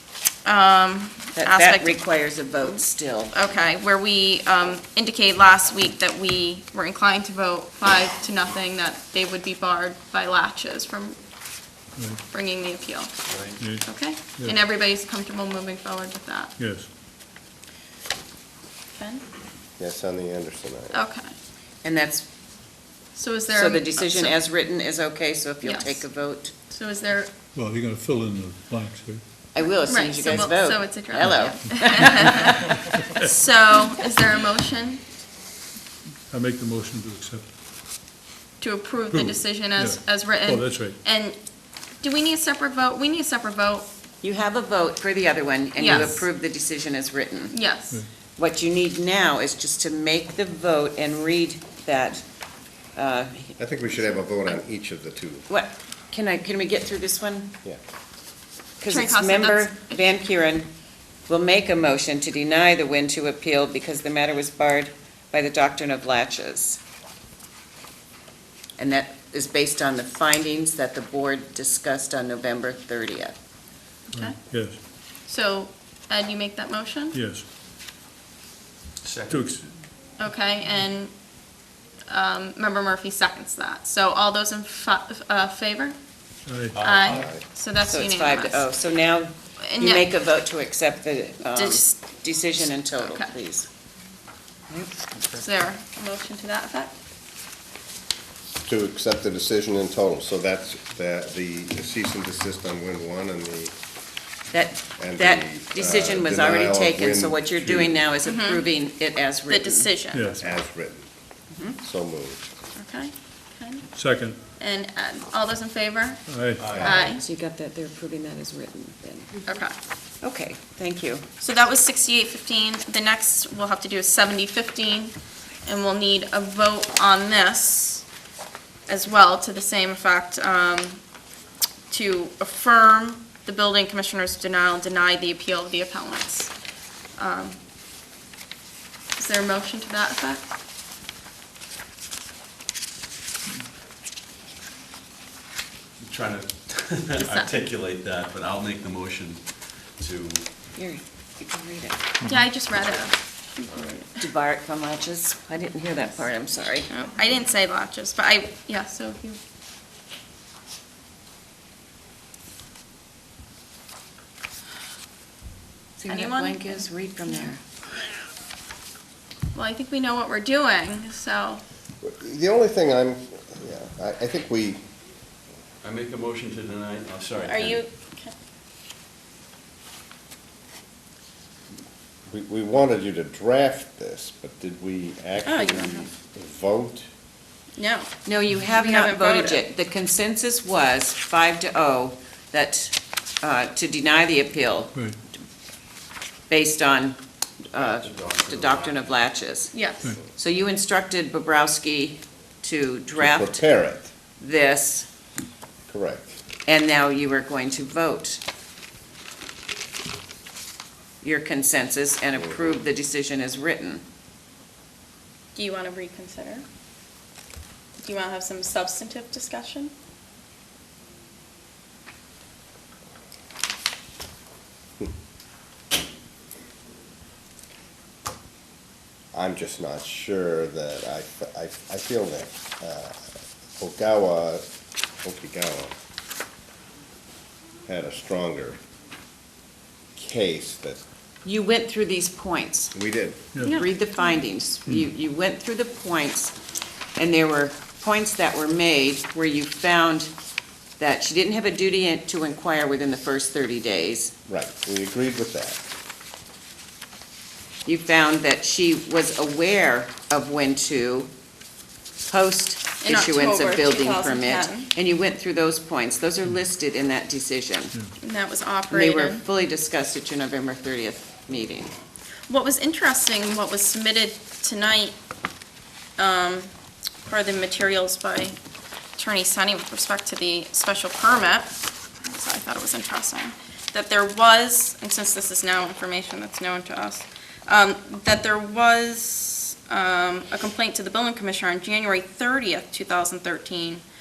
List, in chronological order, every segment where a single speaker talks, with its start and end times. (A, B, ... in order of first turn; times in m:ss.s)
0:00.4-0:11.2 A
0:01.4-0:03.3 B
0:12.0-0:12.2 C
0:12.3-0:16.5 A
0:13.3-0:13.6 D
0:13.6-0:14.6 C
0:16.6-0:16.9 C
0:18.9-0:19.2 A
0:19.8-0:20.9 E
0:20.9-0:21.3 A
0:21.8-0:22.2 B
0:23.1-0:24.4 A
0:23.5-0:26.5 B
0:25.6-0:27.3 A
0:27.5-0:29.2 C
0:29.5-0:32.3 B
0:29.9-0:35.0 A
0:32.8-0:33.2 C
0:36.3-0:37.5 C
0:38.6-0:41.4 A
0:39.1-0:41.0 C
0:42.0-0:43.9 A
0:44.2-0:47.5 B
0:45.8-0:46.3 A
0:45.9-0:46.1 C
0:47.5-0:48.0 A
0:48.4-0:52.2 B
0:52.9-0:54.2 B
0:53.6-0:55.5 E
0:55.5-0:57.5 B
0:58.8-1:00.7 B
0:58.9-1:00.1 A
1:01.3-1:06.8 B
1:08.8-1:13.3 B
1:14.1-1:17.2 A
1:14.1-1:14.8 C
1:17.1-1:17.4 C
1:19.0-1:19.6 D
1:19.3-1:19.8 C
1:20.2-1:21.1 A
1:22.1-1:26.0 A
1:26.4-1:26.8 C
1:26.7-1:27.3 D
1:26.8-1:28.7 A
1:27.0-1:27.4 E
1:27.8-1:33.7 B
1:29.6-1:30.1 A
1:31.4-1:32.1 A
1:32.6-1:33.3 A
1:34.7-1:35.2 B
1:35.3-1:36.9 A
1:38.6-1:43.7 E
1:44.5-1:49.9 B
1:45.0-1:48.0 E
1:48.2-1:48.6 A
1:49.5-1:50.6 A
1:50.1-1:50.4 C
1:50.4-1:51.0 E
1:51.8-1:52.5 E
1:52.8-1:53.9 A
1:53.9-1:54.4 C
1:54.6-1:57.2 A
1:56.3-1:56.7 C
1:56.6-1:57.0 D
1:57.0-1:59.4 B
1:59.5-1:59.7 A
2:00.2-2:01.2 B
2:01.4-2:08.0 A
2:08.9-2:11.0 A
2:11.9-2:16.5 A
2:17.2-2:17.6 A
2:19.2-2:20.5 A
2:26.0-2:30.7 D
2:27.2-2:27.5 A
2:30.7-2:32.0 B
2:32.2-2:34.2 A
2:34.2-2:36.9 B
2:36.9-2:39.4 A
2:46.0-2:47.6 B
2:46.1-2:47.5 A
2:49.5-2:51.6 A
2:52.0-2:54.8 E
2:55.8-2:57.8 D
2:57.4-2:58.3 A
3:02.3-3:07.1 E
3:05.4-3:06.1 A
3:07.8-3:08.1 A
3:08.2-3:14.9 B
3:08.7-3:09.6 A
3:16.5-3:17.2 B
3:17.7-3:19.8 B
3:17.7-3:19.1 D
3:19.7-3:20.1 A
3:20.4-3:23.6 B
3:23.2-3:24.1 E
3:24.4-3:25.1 B
3:25.9-3:26.4 E
3:26.6-3:28.4 B
3:31.2-3:34.0 B
3:32.4-3:32.8 E
3:35.5-3:36.6 A
3:38.0-3:39.9 A
3:49.3-3:53.3 E
3:53.8-3:54.6 E
3:55.2-3:55.9 E
3:57.8-3:58.8 E
4:00.1-4:01.0 E
4:01.4-4:02.9 B
4:02.9-4:03.4 E
4:03.5-4:03.8 C
4:03.6-4:04.4 A
4:03.6-4:06.5 B
4:07.2-4:10.3 B
4:11.0-4:14.3 B
4:14.5-4:15.8 E
4:17.8-4:21.3 B
4:22.3-4:27.9 B
4:23.0-4:24.9 A
4:28.2-4:29.4 A
4:28.9-4:31.9 B
4:32.5-4:35.2 A
4:36.2-4:36.7 A
4:37.2-4:38.6 A
4:39.2-4:41.7 A
4:42.2-4:54.0 A